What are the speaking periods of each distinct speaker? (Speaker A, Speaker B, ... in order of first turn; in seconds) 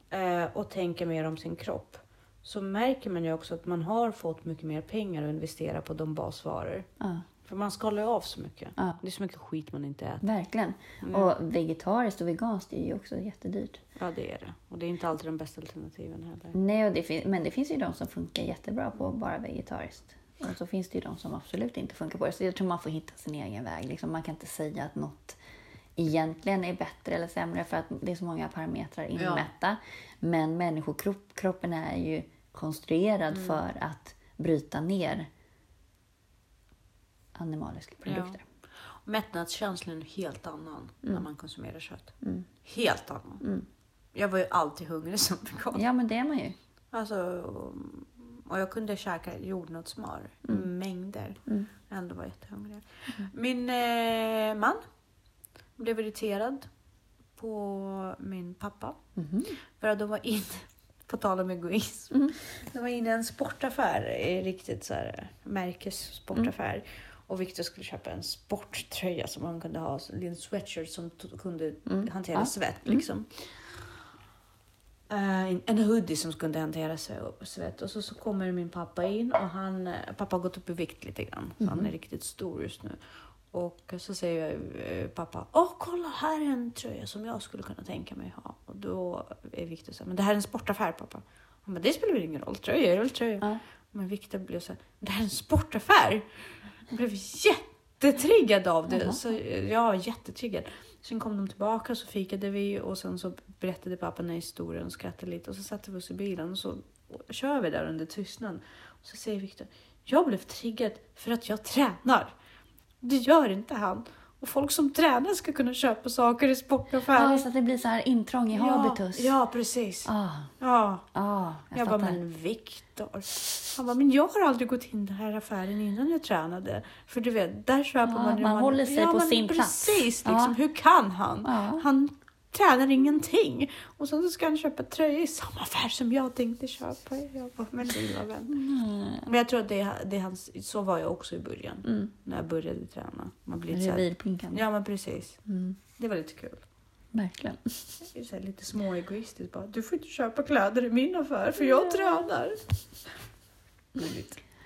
Speaker A: 0.1-6.9, 7.5-10.2, 11.0-11.3, 14.0-16.6, 29.2-29.5, 33.3-33.6, 38.1-38.4, 39.0-43.4, 44.1-45.8, 46.9-54.8, 55.8-56.7, 57.4-59.0, 59.8-73.4, 75.1-83.0, 83.5-96.3, 96.9-112.3, 113.0-117.5, 118.5-121.0, 121.7-138.6, 139.2-145.4, 146.0-146.6, 148.1-152.6, 154.0-154.3
Speaker B: 7.0-7.3, 10.2-13.8, 16.5-25.4, 26.0-35.3, 37.4-38.4, 42.2-42.5, 43.4-43.7, 45.7-46.6, 59.2-59.6, 71.9-73.0, 81.6-81.9, 98.9-99.2, 117.1-119.3, 120.1-120.5, 121.1-122.2, 128.0-130.6, 131.4-131.9, 138.5-139.3, 141.8-142.1, 143.7-144.6, 145.5-145.8, 147.1-147.8, 151.8-152.1